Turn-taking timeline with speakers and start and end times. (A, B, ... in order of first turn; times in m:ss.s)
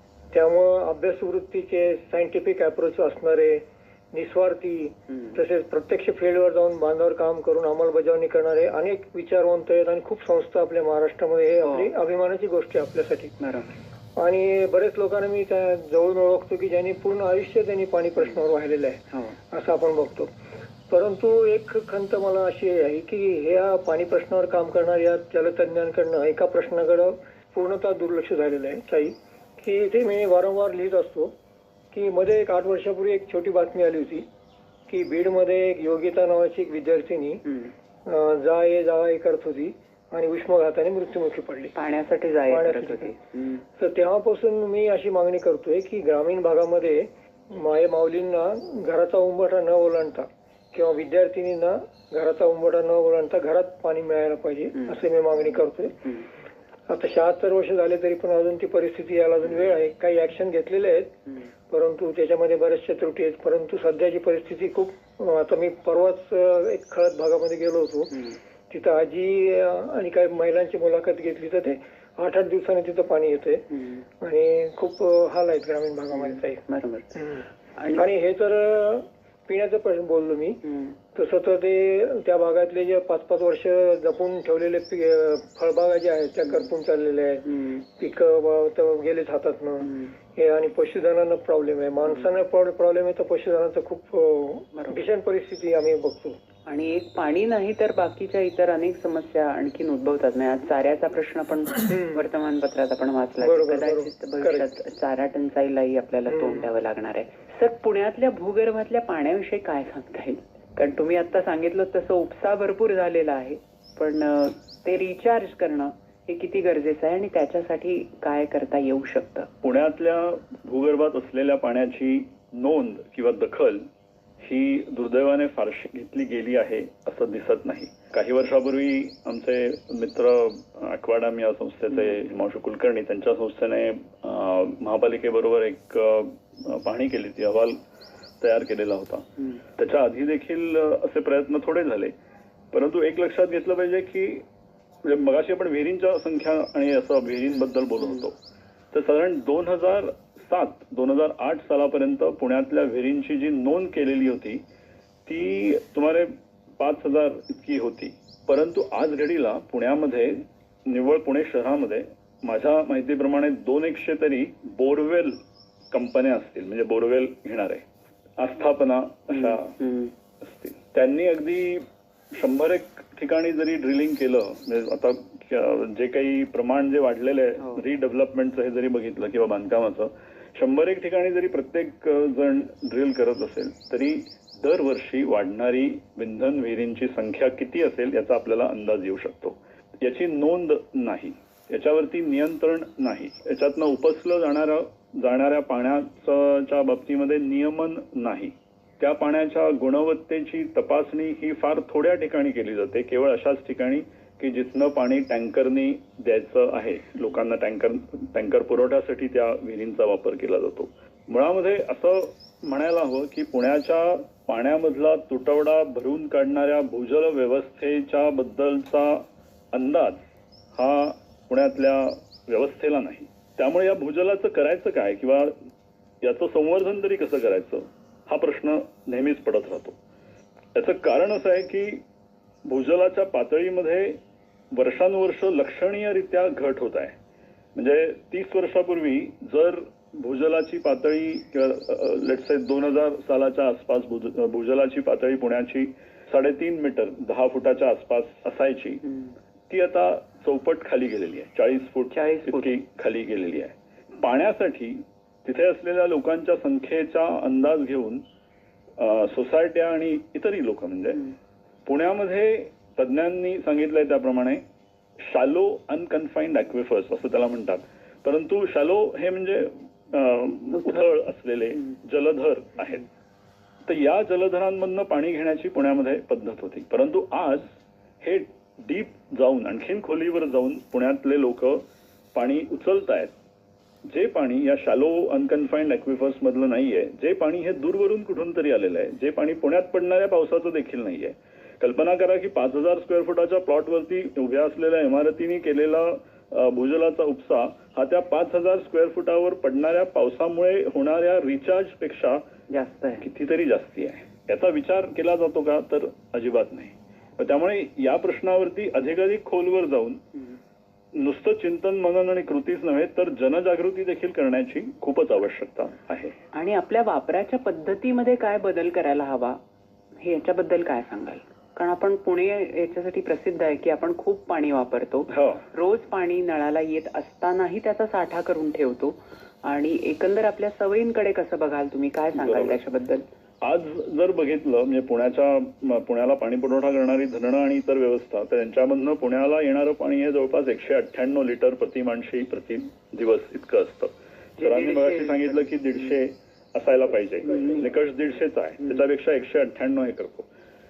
0:00.3-0:13.4 A
0:05.1-0:05.4 B
0:11.6-0:11.9 B
0:13.4-0:13.8 B
0:14.2-0:20.3 A
0:20.9-0:31.3 A
0:31.9-0:34.2 A
0:34.9-0:37.4 A
0:38.0-0:41.7 A
0:41.7-0:43.6 B
0:42.5-0:43.1 A
0:43.8-0:56.1 A
0:56.9-1:01.2 A
1:01.7-1:13.7 A
1:14.2-1:16.6 A
1:16.2-1:17.2 B
1:17.2-1:20.6 A
1:17.8-1:18.0 B
1:20.6-1:20.9 B
1:21.1-1:36.4 A
1:27.5-1:27.8 B
1:34.7-1:35.0 B
1:36.6-1:59.5 B
1:41.9-1:42.2 A
1:43.4-1:44.7 A
1:46.3-1:46.7 A
1:59.6-2:03.8 C
2:04.4-2:17.8 C
2:18.4-2:22.1 C
2:22.7-2:24.4 C
2:25.0-2:28.3 C
2:28.9-2:34.6 C
2:35.2-2:45.4 C
2:45.9-2:47.8 C
2:48.4-2:49.8 C
2:49.5-2:50.1 B
2:50.4-3:40.2 C
3:40.7-3:45.5 C
3:46.2-3:50.0 C
3:50.7-3:52.0 C
3:52.6-3:54.2 C
3:54.7-3:57.2 C
3:57.7-4:09.0 C
4:09.7-4:18.2 C
4:12.1-4:12.7 B
4:19.0-4:21.3 C
4:21.8-4:24.6 C
4:25.2-4:33.0 C
4:33.8-4:41.8 C
4:42.3-4:43.3 C
4:44.0-5:02.4 C
5:02.7-5:03.2 B
5:03.2-5:10.2 C
5:11.1-5:16.4 C
5:16.5-5:19.6 B
5:20.2-5:33.2 B
5:25.3-5:25.6 C
5:32.3-5:32.8 C
5:33.6-5:50.5 C
5:44.6-5:45.6 B